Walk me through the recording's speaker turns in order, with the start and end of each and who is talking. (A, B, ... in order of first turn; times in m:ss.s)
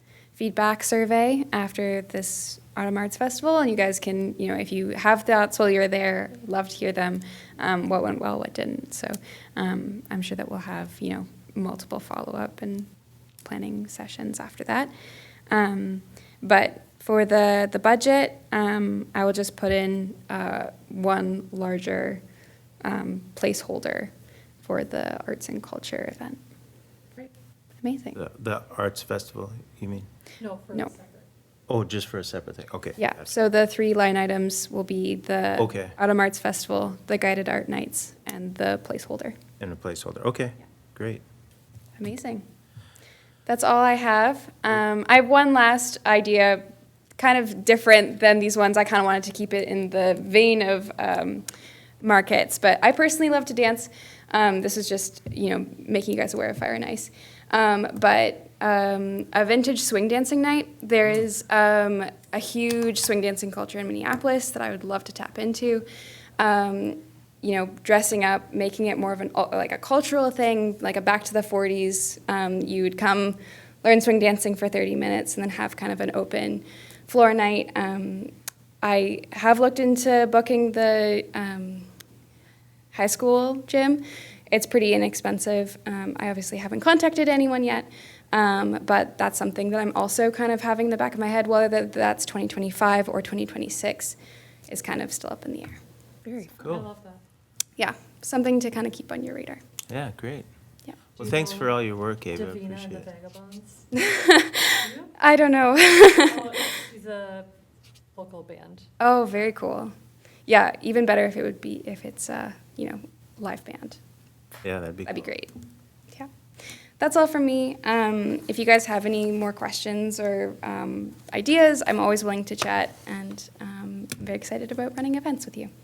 0:00.4-0:12.9 A
0:13.4-0:14.9 A
0:15.5-0:22.2 A
0:22.8-0:24.1 A
0:24.6-0:26.4 A
0:27.8-0:28.2 A
0:28.2-0:30.1 B
0:30.4-0:31.2 C
0:31.7-0:33.3 B
0:33.0-0:39.4 A
0:35.6-0:35.9 B
0:39.6-0:41.2 B
0:42.0-0:42.4 A
0:43.5-0:51.5 A
0:52.0-1:05.9 A
1:06.4-1:21.9 A
1:22.9-1:34.2 A
1:34.7-1:35.8 A
1:36.6-1:37.2 C
1:36.6-1:36.9 B
1:37.8-1:39.6 A
1:39.9-1:40.5 B
1:41.2-1:41.8 C
1:41.2-1:43.1 B
1:42.3-1:43.9 C
1:44.0-1:46.6 A
1:44.8-1:45.1 C
1:46.2-1:47.5 C
1:48.1-1:48.9 C
1:49.0-1:49.9 A
1:50.5-1:54.0 A
1:54.6-1:55.3 B
1:55.0-1:55.5 A
1:57.0-2:05.7 A